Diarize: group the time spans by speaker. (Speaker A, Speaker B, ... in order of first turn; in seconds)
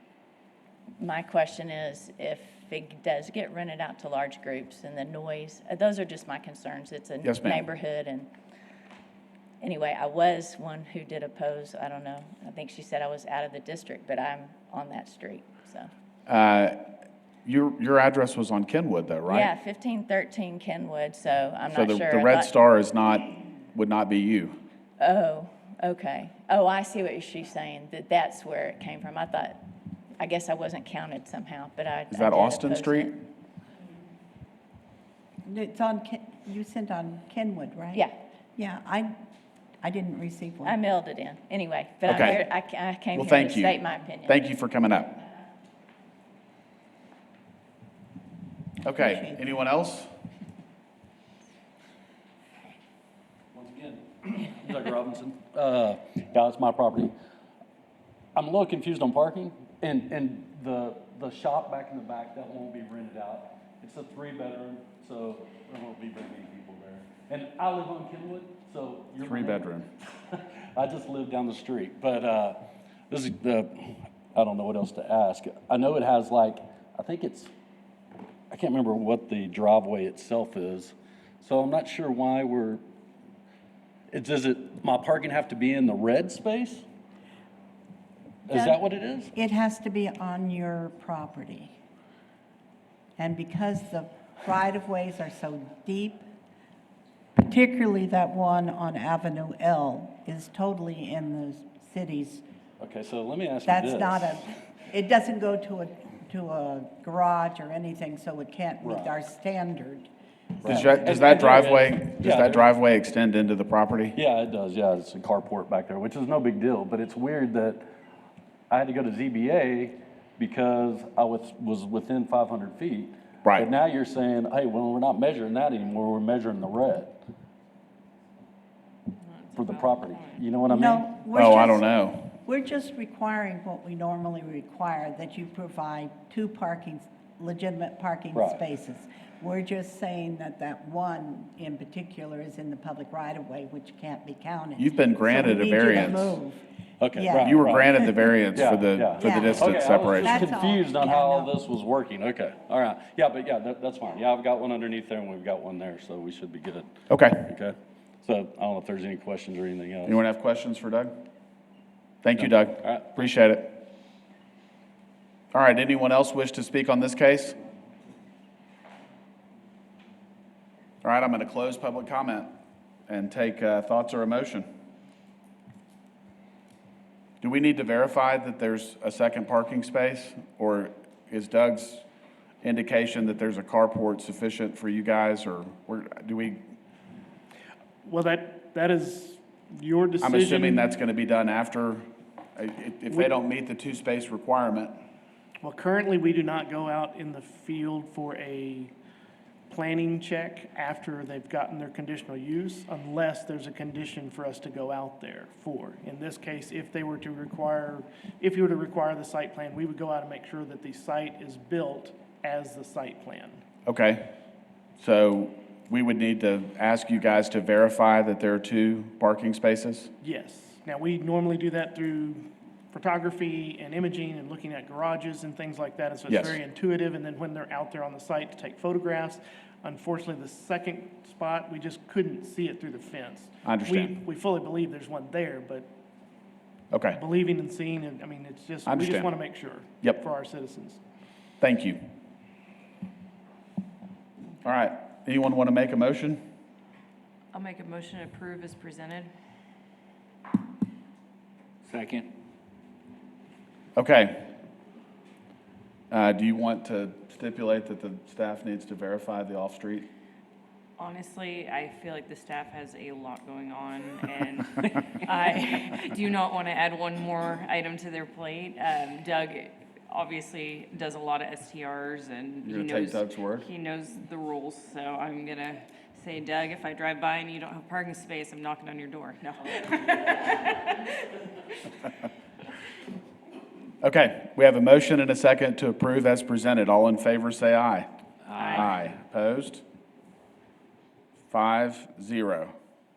Speaker A: 1.0-8.3, 9.6-15.9, 19.3-22.5, 25.0-29.6, 30.2-33.2, 40.6-44.4
Speaker B: 7.2-7.6, 16.3-16.8, 17.4-19.5, 21.7-24.6, 32.1-33.1, 42.0-42.4, 43.1-45.1, 48.8-50.1, 69.2-69.9, 110.7-114.2, 123.4-123.7, 131.3-132.2, 144.8-146.4, 147.4-150.4, 157.1-157.4, 160.0-161.1, 162.2-163.8, 165.5-167.6, 171.0-172.5, 173.1-174.7, 177.4-182.0, 182.6-186.6, 190.2-194.9, 213.8-214.3, 215.0-220.1, 226.3-226.6, 233.6-234.2, 236.9-237.2, 238.8-239.3, 241.6-242.0, 244.6-246.4, 253.9-254.5, 256.1-260.1, 272.6-273.7, 284.0-288.1, 288.6-289.8, 291.5-292.7
Speaker C: 35.5-39.1, 39.8-40.8, 48.9-49.6, 88.5-88.8, 89.3-91.7, 93.2-96.3, 97.3-102.4, 103.6-110.1, 110.6-111.1, 130.7-148.3, 149.2-151.5
Speaker D: 53.5-57.1, 58.3-72.6, 73.1-77.5, 78.5-82.8, 84.1-86.8, 88.5-89.3, 102.8-104.4, 108.8-109.1, 110.6-112.7, 114.1-117.8, 118.7-127.1, 129.6-131.1, 138.3-138.6, 147.0-160.2, 162.4-163.1
Speaker E: 129.2-130.4, 247.5-249.3, 261.0-281.1, 288.5-288.9
Speaker F: 188.0-190.9, 195.6-198.9, 199.7-213.6, 220.2-235.9, 237.1-241.0